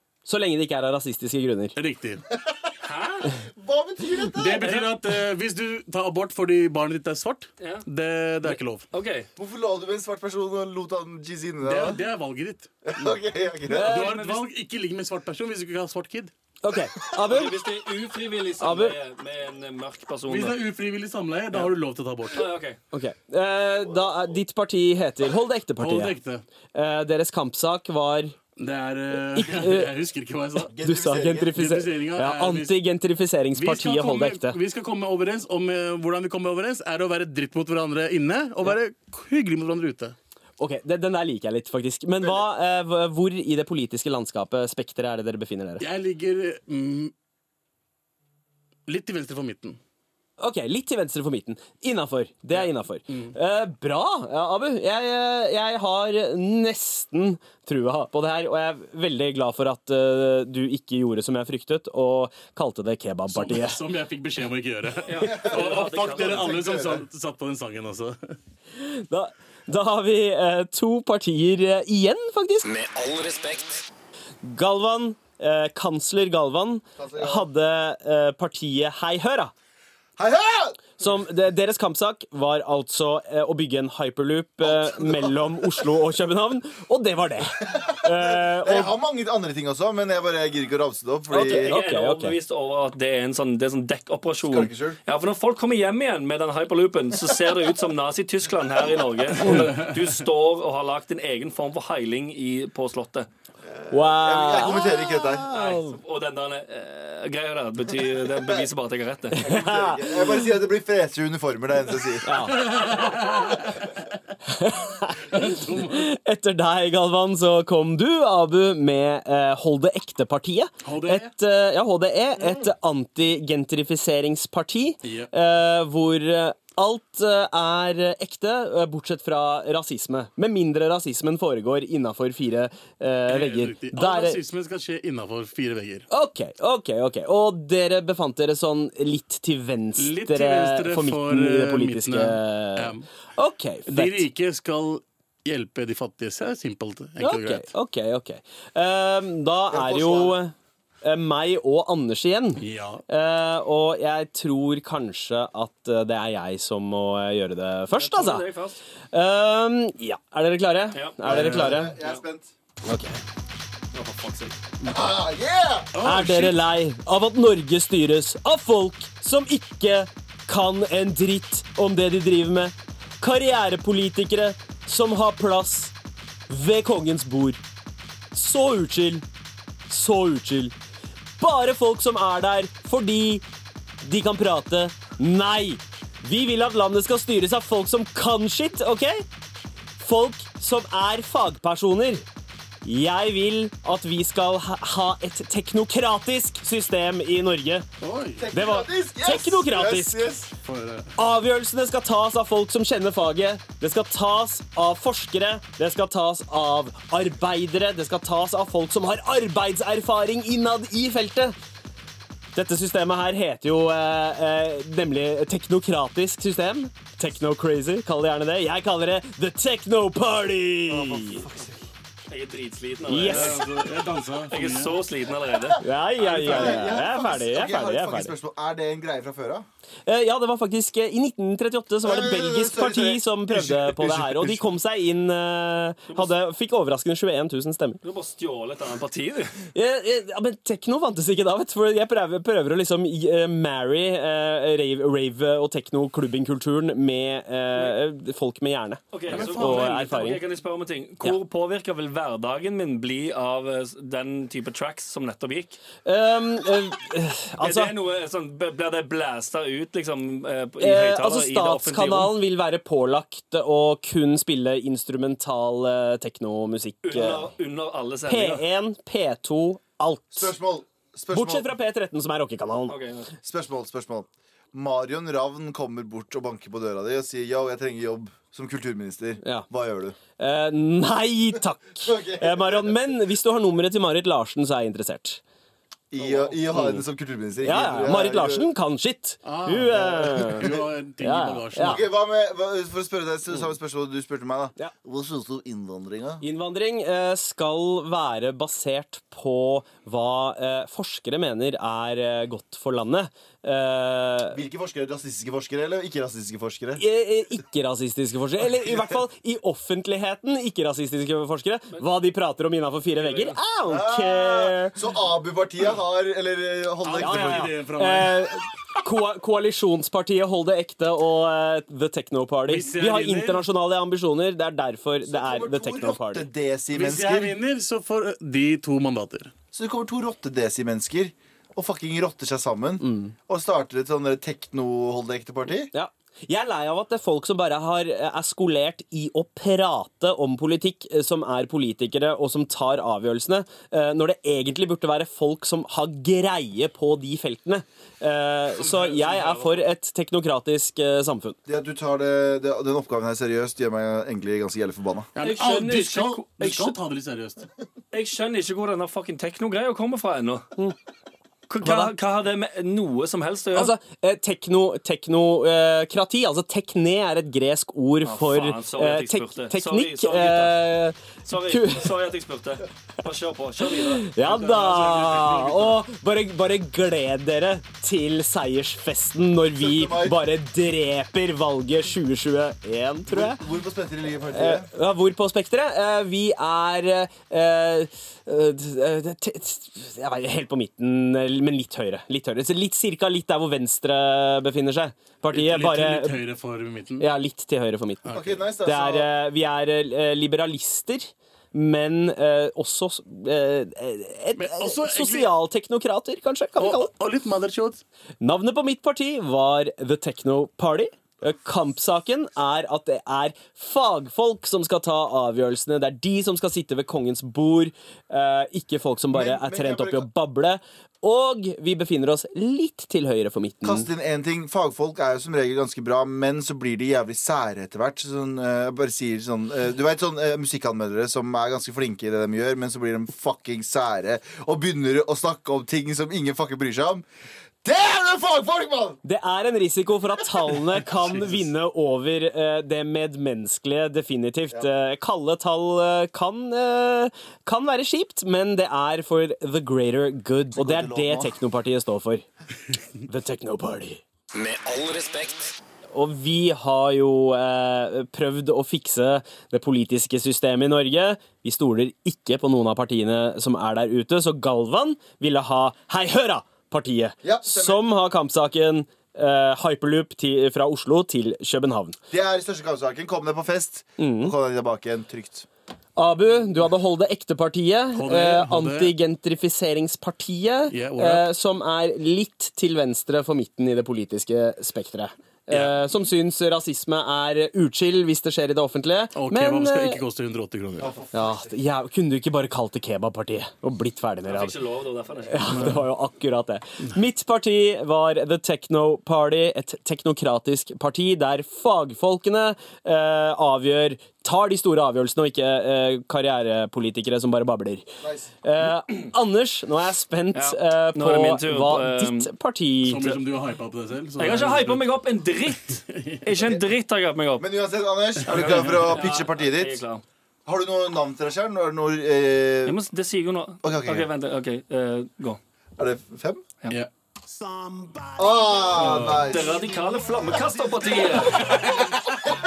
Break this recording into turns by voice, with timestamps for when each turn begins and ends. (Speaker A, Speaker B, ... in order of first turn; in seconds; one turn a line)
Speaker A: 0.3-1.8
Speaker B: 1.8-2.2
Speaker C: 2.3-2.6
Speaker D: 2.8-3.3
Speaker C: 3.4-4.8
Speaker B: 4.3-8.9
Speaker D: 4.6-4.9
Speaker D: 7.6-7.8
Speaker D: 8.4-9.3
Speaker C: 9.4-12.0
Speaker B: 11.6-12.7
Speaker C: 12.8-14.0
Speaker A: 13.7-14.2
Speaker B: 13.8-16.3
Speaker D: 13.8-14.5
Speaker A: 16.6-17.6
Speaker D: 17.3-20.6
Speaker A: 18.6-18.9
Speaker B: 20.3-22.5
Speaker D: 22.3-22.8
Speaker A: 22.9-26.2
Speaker B: 25.8-26.4
Speaker A: 26.7-28.4
Speaker B: 28.6-30.7
Speaker A: 29.3-29.9
Speaker C: 30.7-31.6
Speaker A: 30.8-34.6
Speaker B: 31.5-32.8
Speaker B: 33.5-40.2
Speaker A: 40.6-45.9
Speaker B: 45.8-47.1
Speaker B: 48.9-49.8
Speaker A: 50.4-63.8
Speaker B: 52.5-53.4
Speaker B: 63.3-68.4
Speaker D: 65.1-66.8
Speaker C: 65.2-67.0
Speaker A: 68.8-72.7
Speaker E: 72.6-73.9
Speaker A: 74.4-79.5
Speaker C: 77.0-77.5
Speaker C: 80.2-80.9
Speaker A: 81.0-88.9
Speaker C: 84.6-85.9
Speaker C: 87.6-91.8
Speaker A: 91.3-92.4
Speaker D: 91.3-103.3
Speaker C: 94.4-95.0
Speaker B: 99.4-100.1
Speaker C: 103.7-105.5
Speaker A: 103.9-106.0
Speaker D: 105.5-109.4
Speaker C: 108.4-108.7
Speaker C: 109.3-112.3
Speaker A: 109.4-110.5
Speaker A: 112.2-112.7
Speaker B: 112.5-113.9
Speaker A: 114.5-134.4
Speaker B: 115.3-116.1
Speaker B: 120.8-121.3
Speaker B: 125.0-125.3
Speaker B: 133.3-136.1
Speaker A: 136.1-144.3
Speaker B: 140.0-143.1
Speaker B: 143.9-147.7
Speaker A: 147.2-158.5
Speaker C: 149.7-150.4
Speaker B: 152.6-153.0
Speaker D: 157.9-158.8
Speaker A: 159.1-162.0
Speaker D: 160.9-161.2
Speaker C: 161.2-162.5
Speaker B: 161.3-161.8
Speaker A: 162.8-163.2
Speaker D: 163.9-164.6
Speaker C: 164.8-165.9
Speaker B: 165.9-166.6
Speaker A: 166.0-175.9
Speaker A: 176.5-177.6
Speaker A: 178.3-179.2
Speaker A: 179.9-180.7
Speaker A: 181.4-183.4
Speaker A: 184.0-189.3
Speaker A: 190.0-192.2
Speaker A: 192.8-197.9
Speaker B: 198.0-198.5
Speaker C: 198.4-200.5
Speaker A: 198.5-200.3
Speaker B: 200.6-201.1
Speaker A: 201.2-211.6
Speaker A: 212.6-221.5
Speaker C: 220.9-221.8
Speaker D: 222.3-223.8
Speaker A: 223.1-223.6
Speaker B: 223.2-225.0
Speaker D: 224.5-225.8
Speaker C: 225.6-229.7
Speaker A: 225.8-228.3
Speaker B: 226.4-226.7
Speaker A: 230.1-238.0
Speaker C: 232.0-234.1
Speaker B: 233.6-234.6
Speaker D: 238.0-239.6
Speaker A: 239.7-250.4
Speaker D: 249.1-255.8
Speaker B: 249.3-250.2
Speaker A: 256.1-257.9
Speaker D: 257.6-262.3
Speaker A: 260.8-267.5
Speaker D: 267.0-268.6
Speaker A: 268.3-270.6
Speaker C: 270.3-271.7
Speaker A: 271.3-273.0
Speaker D: 272.9-273.3
Speaker C: 273.4-280.2
Speaker A: 280.4-285.4
Speaker C: 282.0-282.9
Speaker C: 286.1-288.7
Speaker D: 286.2-286.5
Speaker A: 286.7-287.0
Speaker A: 287.6-292.0
Speaker B: 289.4-292.0
Speaker C: 290.2-290.9
Speaker C: 291.8-296.4
Speaker A: 296.4-304.6
Speaker C: 304.5-307.0
Speaker A: 307.0-314.9
Speaker D: 313.2-313.6
Speaker C: 313.9-317.7
Speaker B: 317.0-318.4
Speaker A: 317.2-326.5
Speaker B: 322.7-323.6
Speaker C: 325.3-327.6
Speaker B: 326.9-329.5
Speaker C: 329.7-335.9
Speaker A: 333.0-333.3
Speaker A: 335.9-351.6
Speaker D: 348.8-349.7
Speaker C: 351.7-355.3
Speaker B: 355.4-357.7
Speaker D: 355.4-357.0
Speaker D: 358.1-360.7
Speaker D: 361.7-363.9
Speaker A: 361.8-362.1
Speaker A: 363.7-372.1
Speaker D: 368.2-370.8
Speaker D: 371.5-374.3
Speaker A: 374.1-383.6
Speaker B: 374.4-376.0
Speaker C: 379.8-380.4
Speaker C: 383.3-384.9
Speaker A: 384.5-396.4
Speaker B: 395.5-397.3
Speaker A: 397.2-407.1
Speaker B: 398.2-398.6
Speaker C: 398.3-399.3
Speaker B: 404.6-405.5
Speaker B: 406.8-408.0
Speaker A: 408.4-424.1
Speaker C: 419.3-420.3
Speaker C: 423.8-437.2
Speaker C: 437.8-439.2
Speaker A: 439.2-452.5
Speaker B: 441.1-441.7
Speaker C: 450.8-451.6
Speaker A: 453.3-454.2
Speaker E: 454.5-455.7
Speaker A: 456.1-472.2
Speaker C: 467.4-468.0
Speaker C: 472.3-475.7
Speaker A: 474.2-474.5
Speaker A: 476.2-490.2
Speaker B: 478.1-479.1
Speaker B: 480.9-481.5
Speaker B: 485.7-486.0
Speaker B: 489.4-491.1
Speaker C: 491.0-491.8
Speaker A: 491.3-494.8
Speaker D: 494.5-495.9
Speaker A: 495.5-508.1
Speaker B: 495.7-496.0
Speaker C: 508.2-508.5
Speaker A: 508.6-513.4
Speaker D: 510.6-512.5
Speaker B: 513.0-515.2
Speaker D: 514.4-517.7
Speaker B: 515.9-516.5
Speaker C: 517.6-520.0
Speaker D: 518.5-520.2
Speaker B: 518.5-519.1
Speaker C: 520.7-523.0
Speaker D: 522.9-525.6
Speaker C: 523.8-524.3
Speaker C: 526.0-526.6
Speaker C: 528.4-529.8
Speaker B: 529.0-529.5
Speaker D: 529.0-532.0